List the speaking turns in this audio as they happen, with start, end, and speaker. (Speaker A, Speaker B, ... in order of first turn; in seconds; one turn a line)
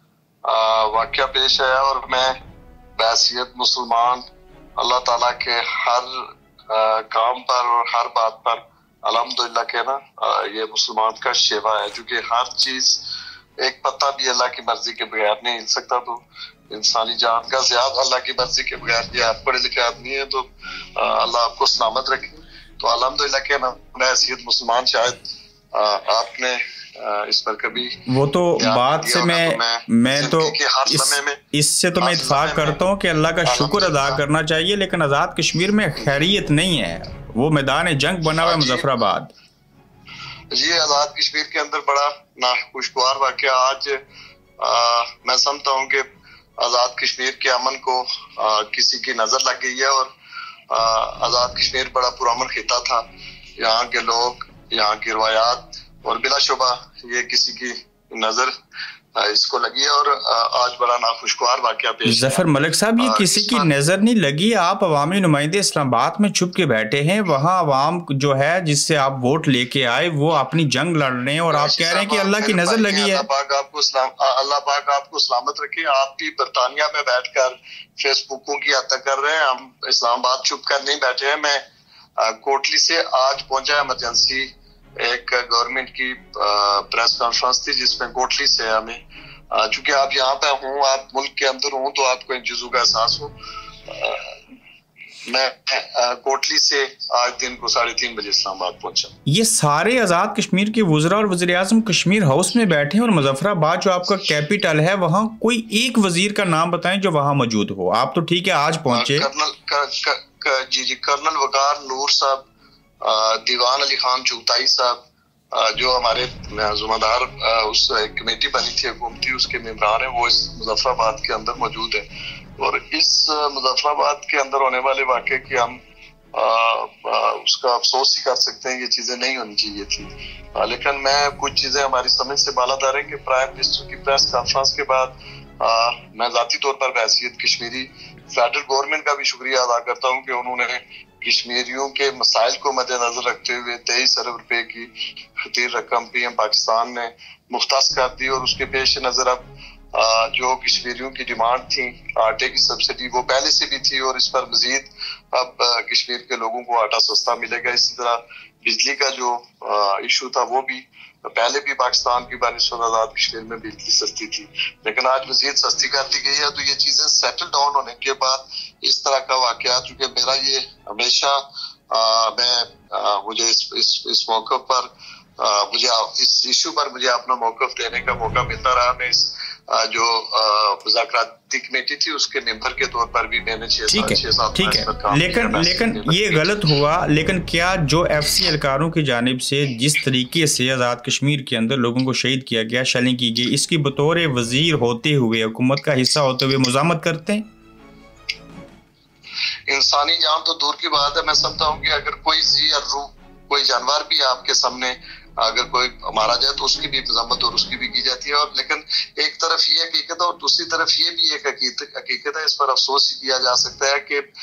Speaker A: 0.4-2.4
Speaker A: 3.0-4.2
Speaker A: 4.8-13.0
Speaker A: 13.6-25.2
Speaker A: 25.7-28.0
Speaker B: 28.1-39.3
Speaker A: 28.6-31.4
Speaker A: 32.0-32.8
Speaker A: 33.4-34.2
Speaker A: 38.4-38.8
Speaker A: 40.5-44.0
Speaker A: 44.6-46.0
Speaker A: 46.6-50.1
Speaker A: 50.7-53.0
Speaker A: 53.6-58.5
Speaker A: 59.1-62.5
Speaker B: 62.0-73.2
Speaker A: 63.0-63.7
Speaker A: 71.5-81.6
Speaker A: 82.2-93.3
Speaker A: 93.8-94.4
Speaker A: 95.3-99.1
Speaker B: 99.3-109.3
Speaker A: 108.9-112.4
Speaker A: 113.0-115.0
Speaker A: 115.5-122.0
Speaker A: 122.6-125.8
Speaker A: 126.3-144.9
Speaker A: 145.4-186.6
Speaker B: 183.9-197.4
Speaker A: 199.7-214.2